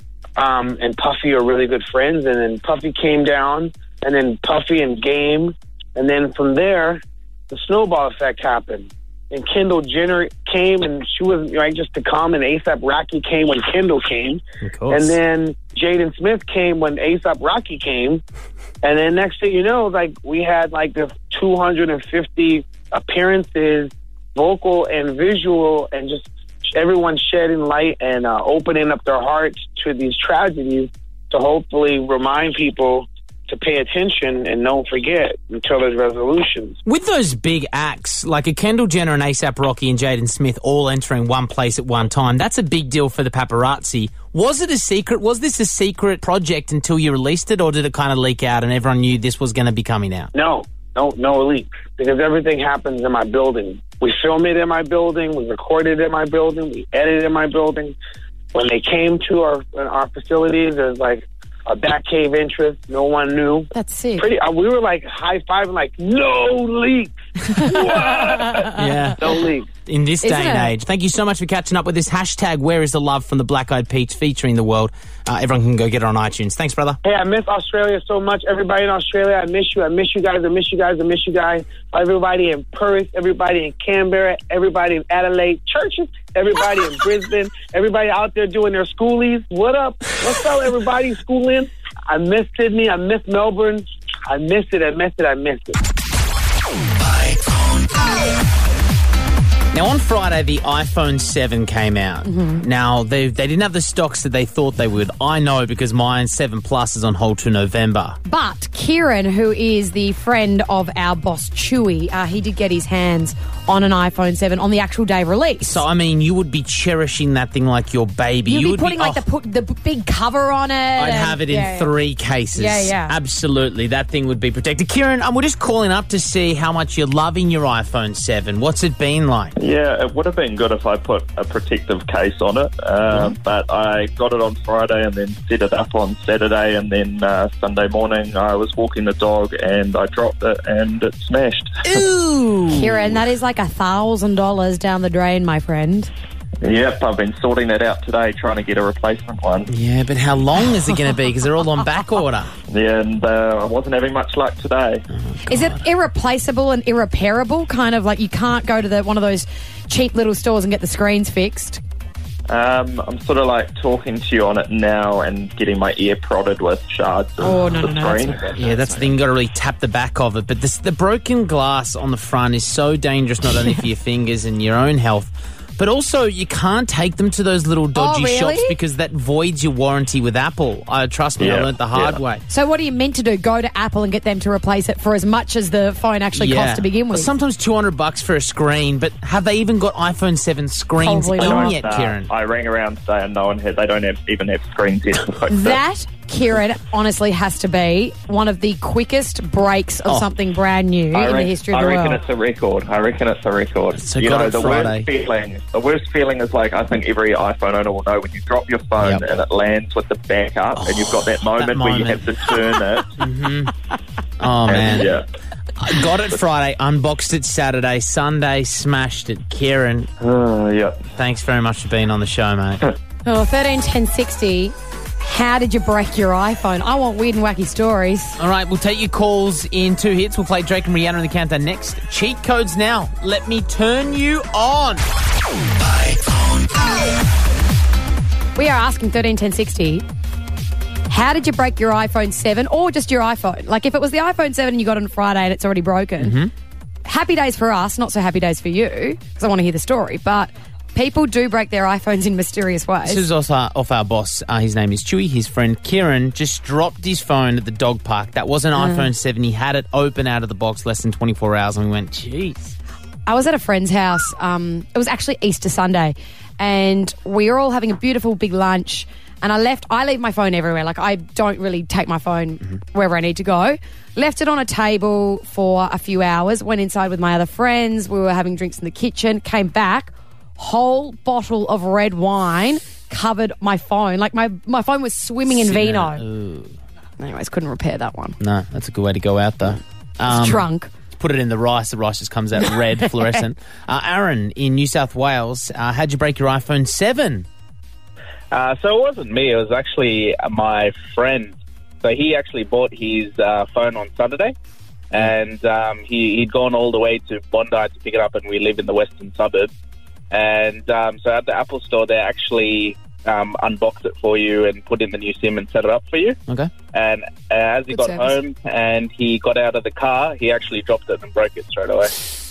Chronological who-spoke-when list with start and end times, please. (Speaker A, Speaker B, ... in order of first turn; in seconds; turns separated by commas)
Speaker A: 0.4-18.2, Speaker B: 14.6-15.2, Speaker A: 18.8-36.8, Speaker B: 36.9-50.3, Speaker A: 50.3-58.0, Speaker A: 58.5-69.7, Speaker C: 63.7-64.3, Speaker C: 67.5-68.8, Speaker B: 68.8-69.3, Speaker B: 69.9-77.0, Speaker C: 70.2-70.7, Speaker A: 77.0-95.8, Speaker B: 99.7-108.2, Speaker C: 102.3-102.6, Speaker C: 108.3-115.8, Speaker B: 115.6-119.2, Speaker C: 118.5-121.9, Speaker B: 121.0-129.5, Speaker C: 122.5-123.2, Speaker D: 129.6-141.8, Speaker C: 141.9-146.1, Speaker D: 146.6-149.7, Speaker B: 149.7-152.5, Speaker D: 152.7-155.0, Speaker B: 155.1-155.8, Speaker C: 155.5-161.8, Speaker D: 162.5-168.6, Speaker C: 167.4-169.1, Speaker B: 167.5-167.8, Speaker B: 168.6-182.4, Speaker C: 177.9-178.8, Speaker D: 181.4-182.2, Speaker C: 182.5-187.3, Speaker B: 186.4-192.3, Speaker C: 191.0-191.8, Speaker D: 191.4-195.8, Speaker C: 195.5-202.2, Speaker D: 201.1-213.1, Speaker B: 203.9-205.1, Speaker B: 209.0-209.4, Speaker B: 210.8-212.5, Speaker B: 213.2-213.7, Speaker B: 214.4-215.2, Speaker D: 214.7-215.2, Speaker B: 215.8-220.1, Speaker D: 220.2-221.0, Speaker B: 221.1-222.8, Speaker C: 223.3-228.4, Speaker B: 228.4-235.0, Speaker C: 238.6-240.0, Speaker C: 241.1-246.4, Speaker B: 246.2-246.5, Speaker C: 247.1-253.2, Speaker B: 253.0-262.8, Speaker C: 258.8-259.1, Speaker C: 263.3-286.2, Speaker B: 285.5-286.8, Speaker C: 287.2-288.4, Speaker B: 288.4-297.5, Speaker C: 290.3-290.9, Speaker C: 292.7-293.4, Speaker E: 298.5-304.6, Speaker E: 305.1-309.7, Speaker E: 310.3-316.4, Speaker E: 316.9-322.1, Speaker C: 317.9-318.4